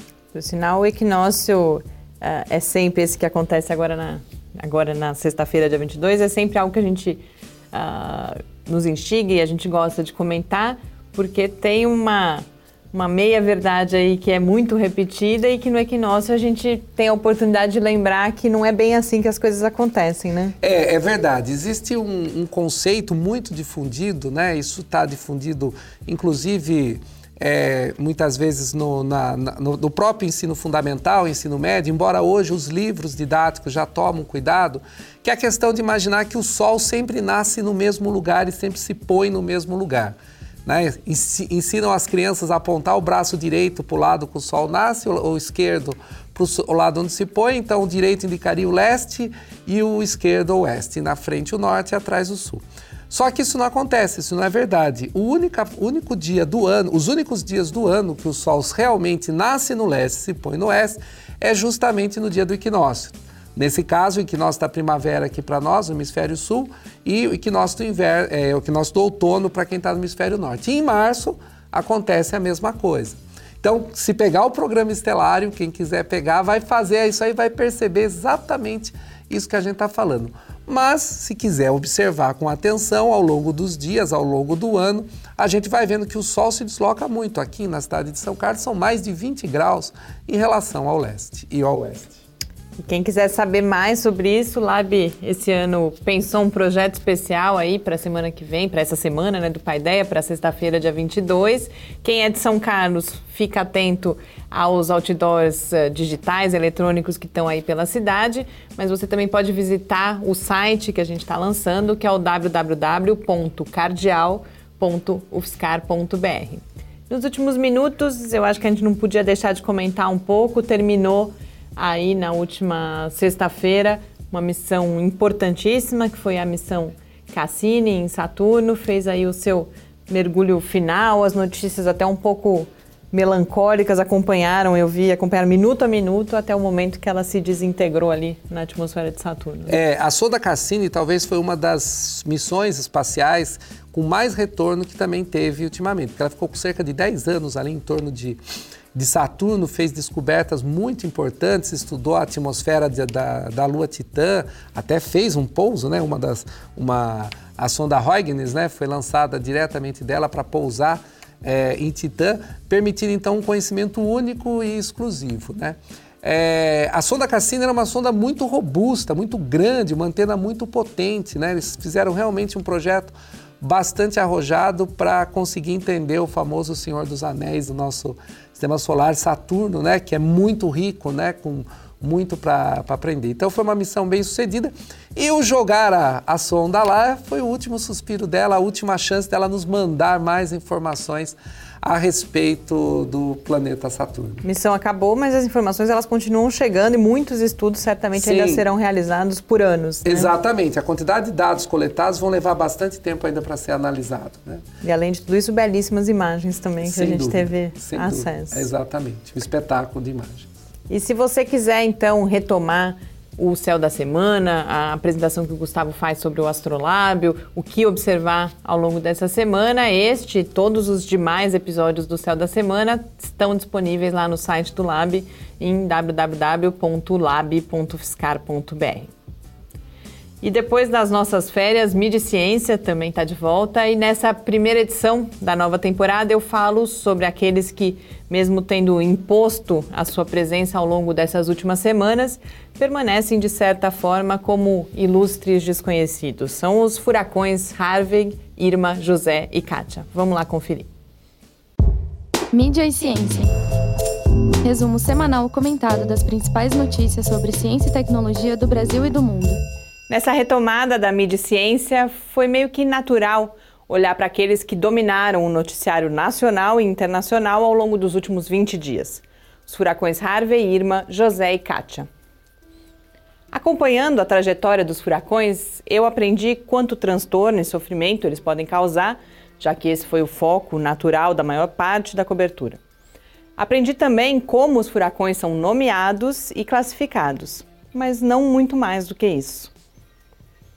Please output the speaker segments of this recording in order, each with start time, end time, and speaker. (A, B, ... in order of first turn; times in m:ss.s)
0:00.3-0:20.6 A
0:20.6-1:32.2 B
1:32.8-2:19.8 A
2:19.7-2:28.4 B
2:28.9-3:14.4 B
3:14.4-3:20.3 A
3:18.2-3:18.6 B
3:20.0-3:24.6 B
3:24.8-3:28.7 A
3:26.8-3:30.5 B
3:30.9-3:49.1 A
3:50.4-4:10.9 A
4:12.5-4:13.5 C
4:14.6-4:19.6 C
4:20.1-4:32.1 A
4:33.5-4:42.8 A
4:43.6-4:49.7 A